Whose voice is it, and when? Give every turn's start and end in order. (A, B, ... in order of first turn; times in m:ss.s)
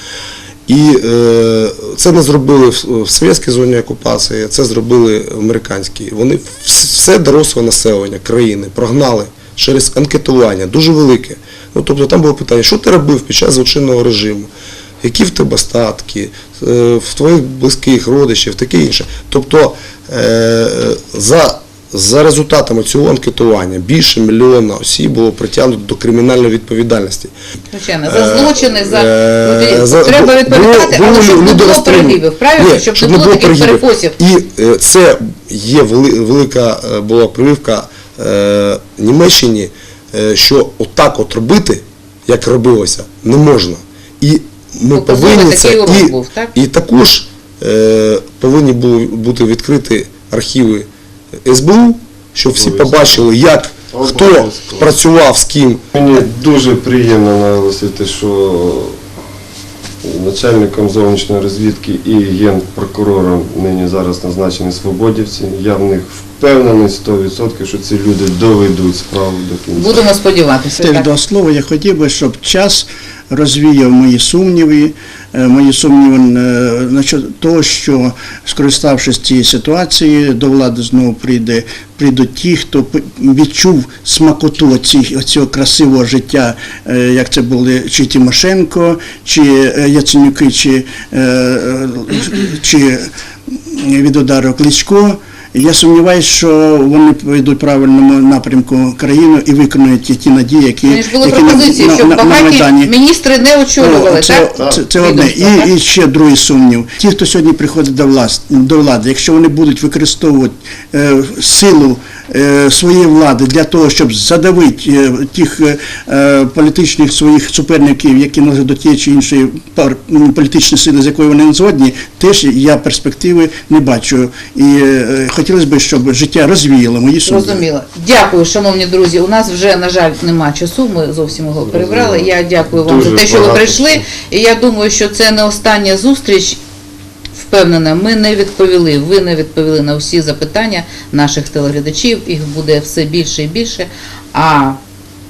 0:00.7-0:14.5 A
0:15.0-0:27.3 A
0:27.7-0:34.2 B
0:28.1-0:50.9 A
0:44.9-0:46.5 B
0:51.4-0:55.8 A
0:52.6-0:53.2 C
0:53.9-0:54.9 C
0:56.0-0:59.0 C
1:00.0-1:10.0 C
1:09.8-1:11.1 B
1:10.8-1:33.1 D
1:33.7-1:42.9 D
1:40.8-1:45.7 B
1:43.8-2:07.6 D
2:07.3-2:16.6 B
2:11.7-2:14.0 C
2:17.4-2:24.8 B